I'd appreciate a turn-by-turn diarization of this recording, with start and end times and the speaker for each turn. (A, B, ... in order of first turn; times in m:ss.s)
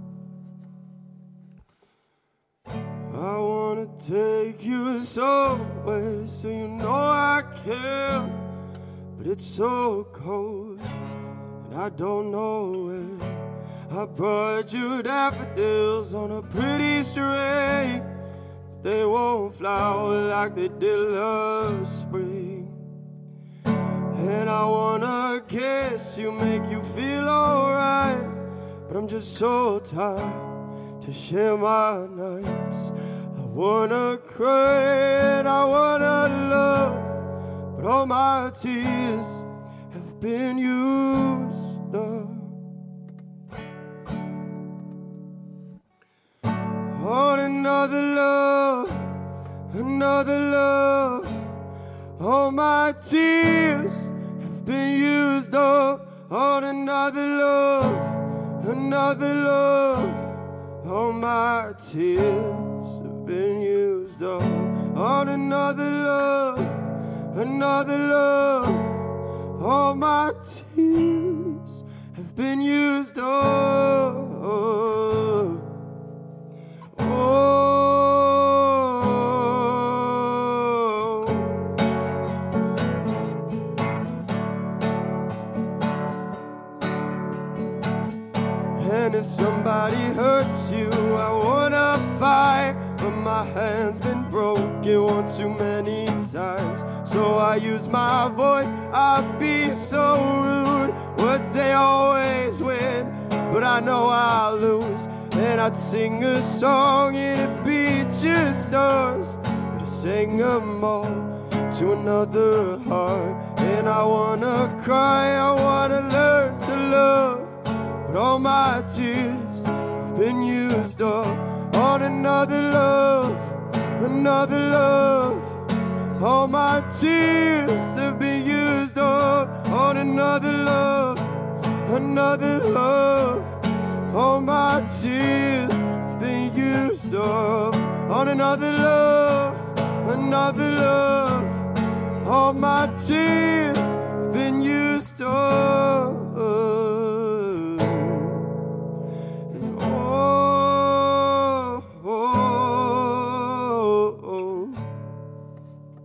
0:03.1-0:08.4 A
0:09.2-0:10.9 A
0:11.6-0:18.1 A
0:18.8-0:22.8 A
0:24.1-0:37.2 A
0:37.8-0:42.6 A
0:46.9-0:49.0 A
0:49.7-0:51.4 A
0:52.2-1:00.3 A
1:00.8-1:09.0 A
1:09.6-1:15.6 A
1:17.0-1:21.5 A
1:28.8-2:05.6 A
2:06.2-2:13.6 A
2:14.1-2:21.6 A
2:22.2-2:28.4 A
2:29.5-2:34.8 A